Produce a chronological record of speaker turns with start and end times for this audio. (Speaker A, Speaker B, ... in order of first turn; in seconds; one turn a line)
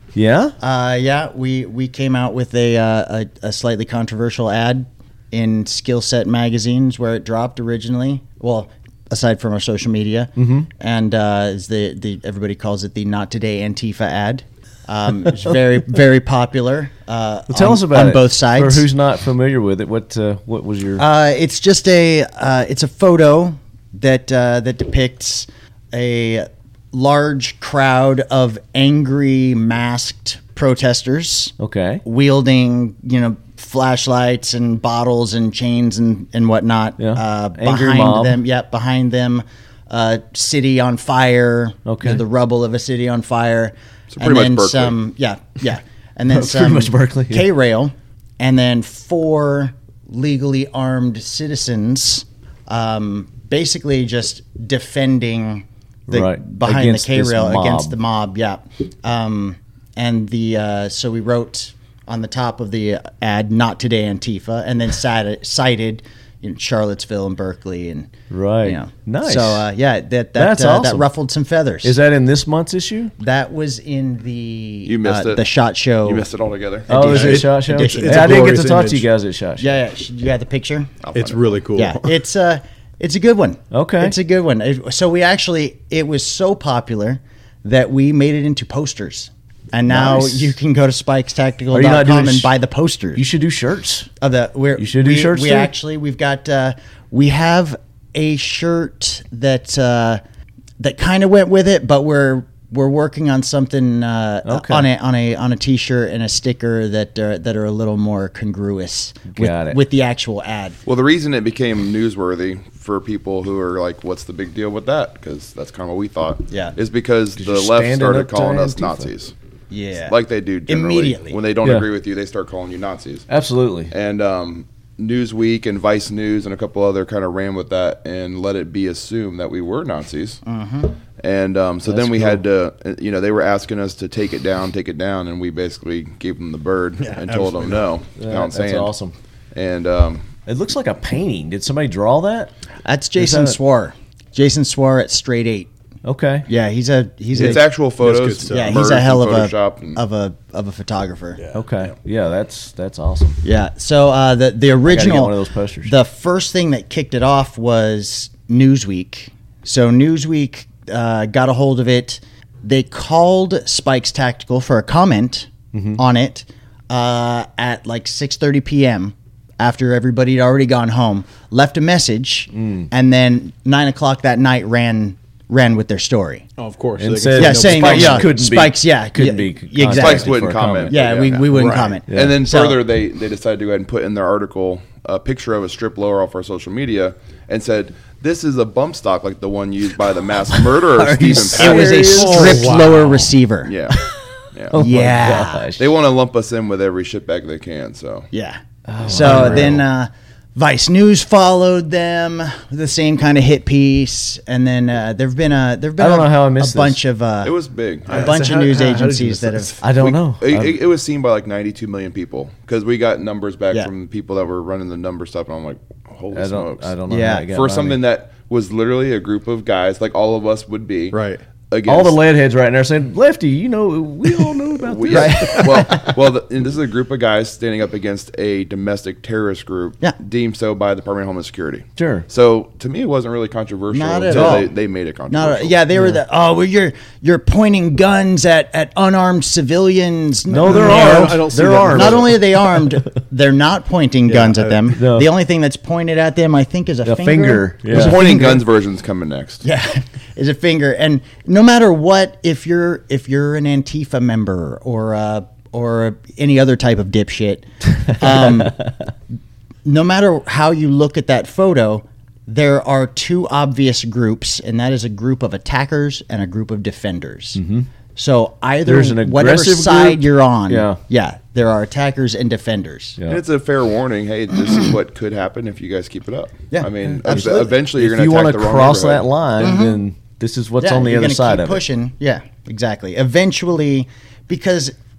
Speaker A: 0.1-0.5
Speaker B: 0.6-18.9
Speaker A: 10.4-10.7
Speaker A: 17.5-21.0
Speaker B: 21.0-72.0
Speaker A: 31.6-32.0
Speaker A: 37.0-38.4
Speaker A: 41.9-42.2
Speaker C: 44.1-45.0
Speaker A: 46.3-47.5
Speaker A: 56.1-57.9
Speaker A: 68.3-69.6
Speaker A: 70.3-71.1
Speaker A: 71.8-73.1
Speaker B: 73.2-76.3
Speaker C: 74.8-75.4
Speaker C: 76.0-77.0
Speaker B: 76.9-78.6
Speaker A: 76.9-79.8
Speaker D: 77.1-79.1
Speaker B: 79.6-81.0
Speaker C: 81.0-81.6
Speaker D: 81.1-82.1
Speaker B: 81.8-93.2
Speaker A: 83.7-84.1
Speaker A: 89.9-90.5
Speaker A: 91.7-92.5
Speaker A: 93.2-94.1
Speaker B: 94.2-100.2
Speaker A: 94.8-95.7
Speaker B: 100.8-110.8
Speaker A: 104.4-104.9
Speaker A: 109.3-109.8
Speaker C: 110.8-119.3
Speaker A: 117.4-119.1
Speaker B: 119.7-120.1
Speaker C: 120.0-123.2
Speaker B: 120.7-121.4
Speaker A: 123.3-123.9
Speaker C: 123.9-130.4
Speaker B: 130.4-131.0
Speaker C: 131.2-138.9
Speaker A: 131.8-132.4
Speaker D: 137.0-137.9
Speaker A: 138.2-139.1
Speaker C: 139.5-140.3
Speaker A: 140.4-142.5
Speaker B: 142.8-145.7
Speaker A: 143.2-143.6
Speaker A: 146.0-146.5
Speaker B: 146.5-147.7
Speaker D: 147.3-148.9
Speaker C: 147.4-150.0
Speaker B: 148.5-151.4
Speaker D: 151.4-151.9
Speaker A: 151.5-153.4
Speaker B: 153.4-176.4
Speaker A: 154.8-155.9
Speaker A: 165.7-166.0
Speaker A: 172.6-172.9
Speaker D: 176.6-178.4
Speaker A: 177.0-180.9
Speaker B: 177.4-182.8
Speaker C: 179.9-192.1
Speaker D: 181.5-182.0
Speaker A: 182.1-182.4
Speaker B: 190.7-193.7
Speaker A: 191.1-192.7
Speaker D: 191.7-193.3
Speaker C: 193.6-194.0
Speaker C: 194.5-194.8
Speaker A: 194.7-195.9
Speaker B: 194.7-195.7
Speaker C: 195.8-198.3
Speaker B: 198.3-207.5
Speaker A: 198.9-199.8
Speaker D: 199.1-199.8
Speaker A: 206.0-207.0
Speaker C: 207.4-208.3
Speaker D: 208.1-209.8
Speaker B: 208.1-209.8
Speaker A: 209.8-210.8
Speaker C: 210.0-217.0
Speaker A: 216.3-218.0
Speaker B: 217.1-217.5
Speaker C: 217.5-221.2
Speaker D: 221.1-221.4
Speaker C: 221.7-222.2
Speaker A: 221.9-225.7
Speaker C: 224.8-235.8
Speaker B: 225.1-226.1
Speaker A: 231.9-232.3
Speaker B: 233.9-234.8
Speaker B: 235.3-248.6
Speaker A: 240.5-242.8
Speaker D: 240.7-242.5
Speaker D: 244.3-244.9
Speaker A: 244.9-245.3
Speaker A: 247.0-248.2
Speaker C: 247.8-249.6
Speaker B: 249.6-258.8
Speaker B: 259.8-267.6
Speaker A: 267.5-267.9
Speaker B: 268.1-273.2
Speaker A: 268.8-271.0
Speaker C: 273.3-279.4
Speaker B: 276.7-277.8
Speaker A: 277.2-281.8
Speaker B: 279.6-280.0
Speaker B: 280.8-284.9